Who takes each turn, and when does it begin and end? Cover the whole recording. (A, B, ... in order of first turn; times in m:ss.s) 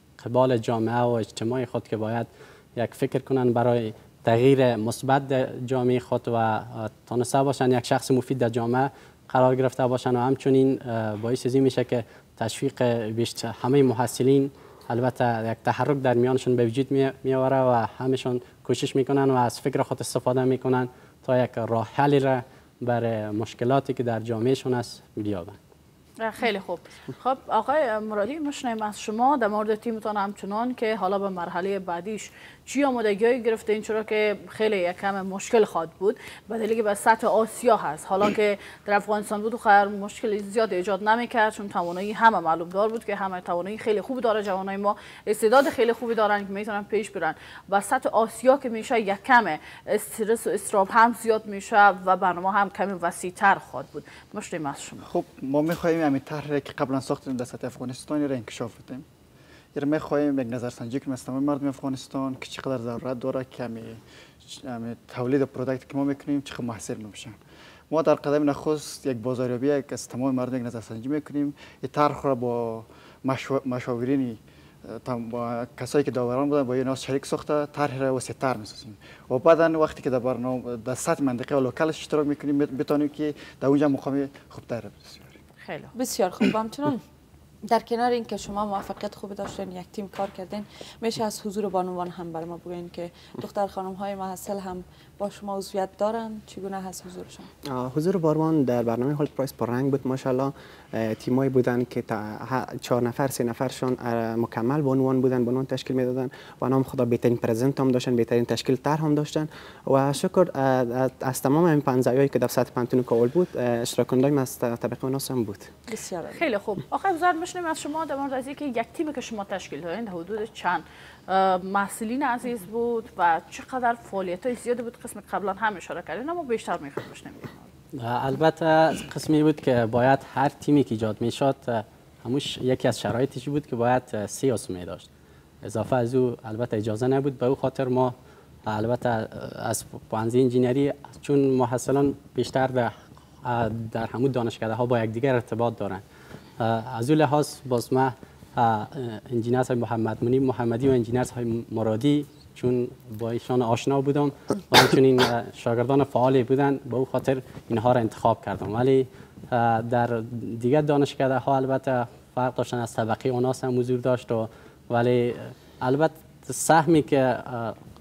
0:00.2-0:25.6 A
0:26.2-0:55.1 B
0:55.1-0:59.0 C
0:59.7-1:07.4 C
1:07.9-1:25.4 C
1:25.6-1:25.9 B
1:25.9-1:27.0 D
1:27.6-1:37.5 D
1:37.6-1:55.7 E
1:55.9-1:56.4 D
1:56.3-2:07.7 B
2:08.0-2:15.1 A
2:15.6-2:18.1 A
2:18.7-2:22.9 A
2:23.4-2:26.0 A
2:26.6-2:47.8 A